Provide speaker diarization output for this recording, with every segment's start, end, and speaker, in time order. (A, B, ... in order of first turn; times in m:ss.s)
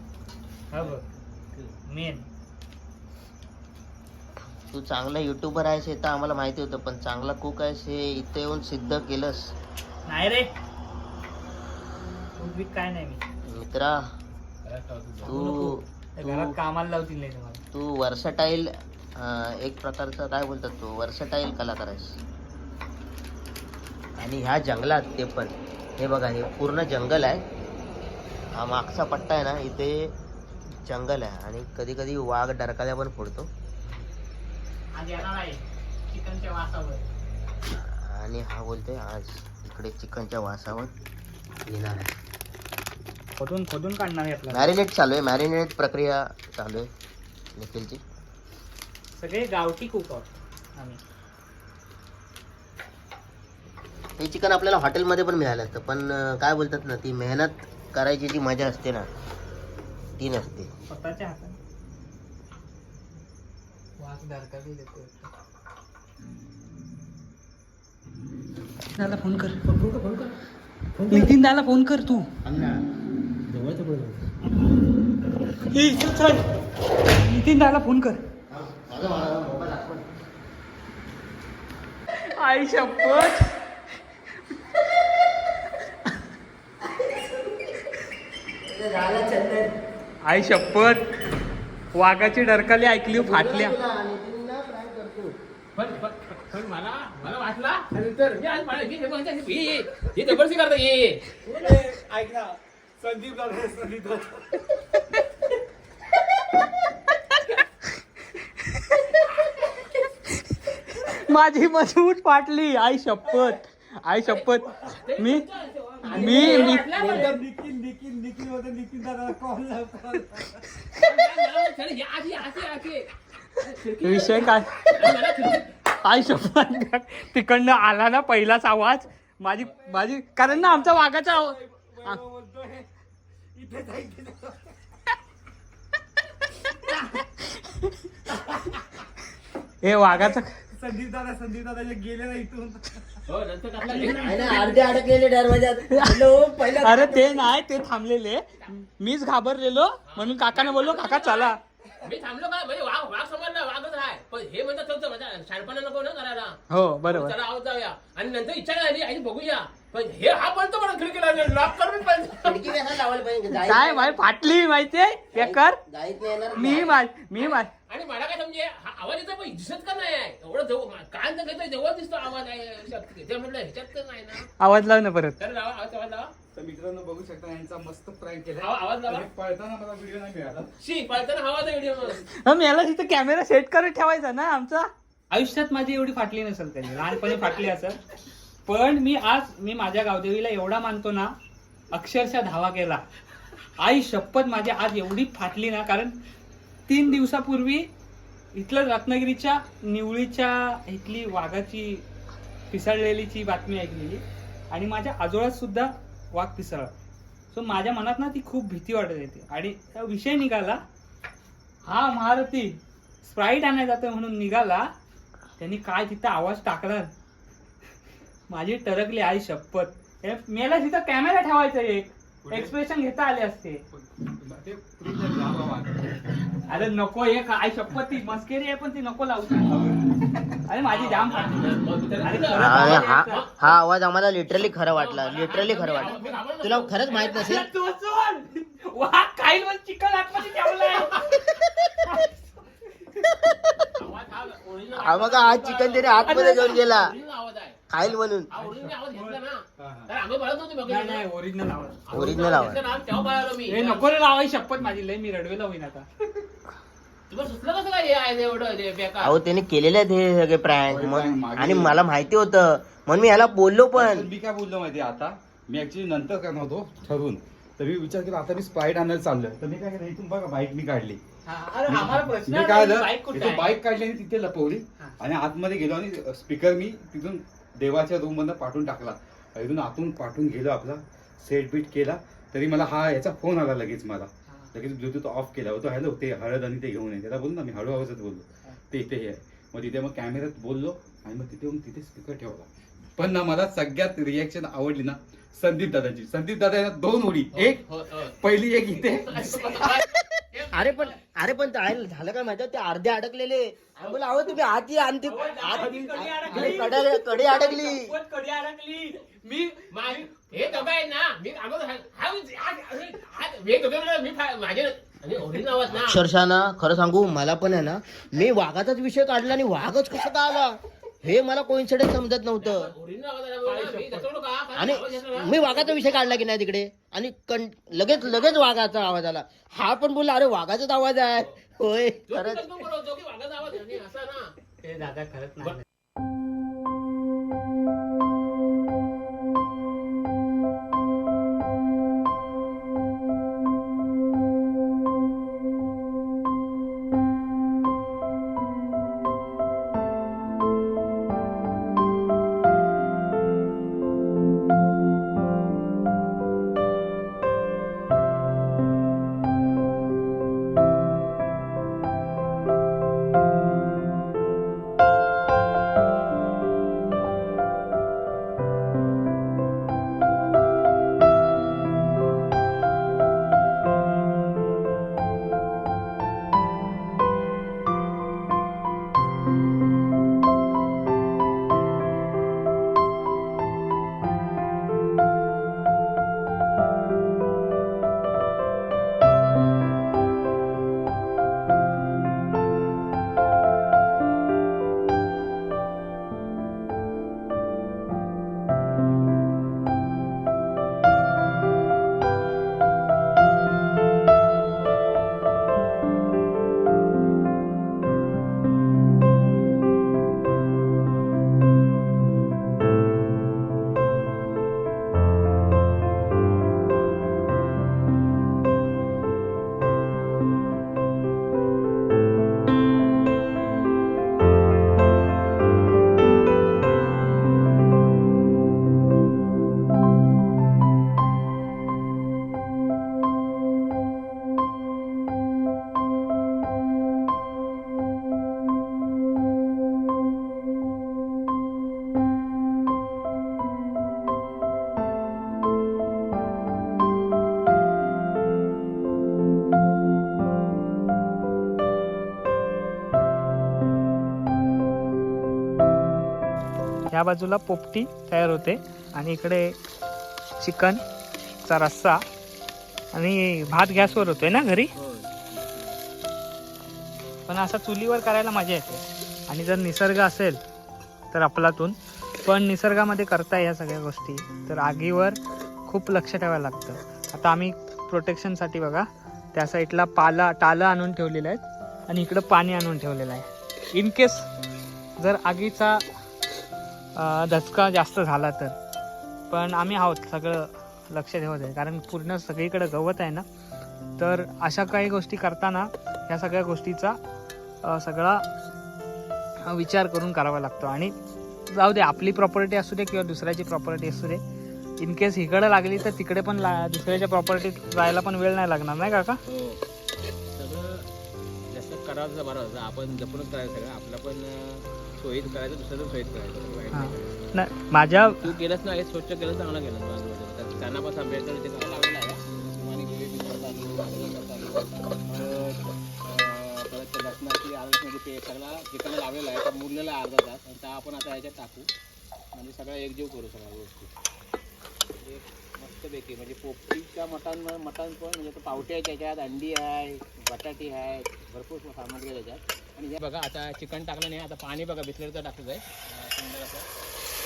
0:00.7-0:01.0 A
0:00.8-0:01.8 B
0:01.9-0:02.3 A
0:04.7-0:09.5 C
0:10.1-0:10.5 A
0:12.4-0:13.2 A
0:13.5-0:14.1 C
0:14.6-0:15.4 B
0:15.2-0:17.6 A
0:15.3-0:16.6 C
0:17.7-0:22.2 C
0:24.2-0:27.4 C
0:28.5-0:30.1 C
0:30.8-0:33.5 C
0:35.0-0:37.0 A
0:37.7-0:40.9 C
0:41.7-0:42.1 C
0:43.4-0:44.7 A
0:44.5-0:46.9 C
0:47.6-0:48.0 C
0:49.2-0:51.0 A
0:54.2-0:59.1 C
1:00.2-1:00.7 C
1:00.9-1:01.6 A
1:04.0-1:05.3 A
1:09.0-1:09.6 A
1:09.6-1:10.3 B
1:11.0-1:11.3 B
1:11.1-1:12.3 A
1:12.4-1:12.8 C
1:13.5-1:14.3 B
1:15.7-1:16.5 A
1:17.2-1:18.2 A
1:18.5-1:20.1 C
1:22.2-1:23.6 A
1:28.6-1:29.7 C
1:30.2-1:31.1 A
1:32.0-1:33.8 A
1:33.1-1:35.4 C
1:35.8-1:41.4 B
1:41.4-1:44.7 D
1:48.6-1:49.2 A
1:50.8-1:55.5 A
1:54.3-1:57.4 B
1:56.0-1:57.3 C
1:56.1-1:56.9 A
1:56.3-2:00.7 D
2:00.9-2:05.7 B
2:04.0-2:05.3 A
2:05.9-2:12.2 A
2:09.7-2:12.9 D
2:13.6-2:14.7 D
2:16.8-2:18.0 A
2:19.8-2:20.6 A
2:20.7-2:23.0 D
2:23.3-2:24.8 B
2:23.9-2:24.3 D
2:24.0-2:27.5 C
2:25.9-2:31.6 A
2:30.1-2:42.8 B
2:36.7-2:37.4 A
2:42.4-2:44.2 C
2:43.6-2:45.8 A
2:45.4-2:46.9 C
2:46.6-2:47.7 A
2:47.5-2:54.5 B
2:54.6-2:55.4 A
2:55.4-2:56.3 B
2:56.5-3:00.7 D
2:58.6-2:59.3 B
3:00.8-3:02.3 B
3:02.3-3:08.0 A
3:08.7-3:11.4 A
3:11.9-3:13.0 A
3:13.8-3:16.2 A
3:16.9-3:17.9 A
3:18.6-3:22.1 A
3:22.7-3:26.9 A
3:27.5-3:30.8 A
3:31.9-3:34.9 A
3:35.6-3:37.1 A
3:38.5-3:43.8 A
3:42.4-3:42.8 D
3:43.9-3:46.2 D
3:46.7-3:50.1 A
3:50.7-3:51.6 A
3:50.9-3:53.8 B
3:52.2-3:53.4 A
3:52.6-3:57.7 C
3:54.9-3:57.6 B
3:56.0-3:56.3 A
3:57.3-4:01.5 A
4:02.1-4:02.3 A
4:03.3-4:03.9 C
4:04.0-4:07.8 B
4:04.9-4:07.1 C
4:06.3-4:06.8 A
4:07.9-4:08.5 C
4:08.5-4:11.2 B
4:08.6-4:09.3 A
4:09.8-4:10.1 D
4:10.9-4:12.0 A
4:12.1-4:14.1 B
4:12.1-4:12.8 C
4:13.7-4:16.1 A
4:17.3-4:19.4 B
4:19.2-4:24.3 C
4:20.9-4:22.0 D
4:23.9-4:31.2 D
4:31.5-4:33.7 A
4:31.9-4:59.9 D
4:44.5-4:44.7 A
4:57.5-4:58.4 B
4:59.2-5:01.2 B
5:00.7-5:08.1 C
5:05.3-5:10.8 A
5:05.3-5:06.8 B
5:09.9-5:16.2 B
5:15.9-5:22.9 C
5:22.6-5:26.2 B
5:24.8-5:32.8 C
5:32.3-5:34.5 B
5:34.8-5:35.8 A
7:37.1-7:39.8 A
7:40.6-7:41.0 A
7:41.6-7:42.2 A
7:43.1-7:44.9 A
7:45.0-7:46.0 B
7:47.5-7:50.6 A
7:51.3-8:04.5 A
8:05.2-8:06.0 A
8:07.2-8:08.8 A
8:09.5-8:13.4 A
8:14.2-8:17.2 A
8:17.8-8:18.5 A
8:19.6-8:21.2 A
8:21.7-8:24.4 A
8:25.0-8:29.4 A
8:29.5-8:29.8 B
8:30.5-8:31.1 B
8:31.7-8:37.5 B
8:36.9-8:38.5 A
8:38.2-8:51.9 B
8:52.5-8:54.1 B
8:55.2-9:06.9 B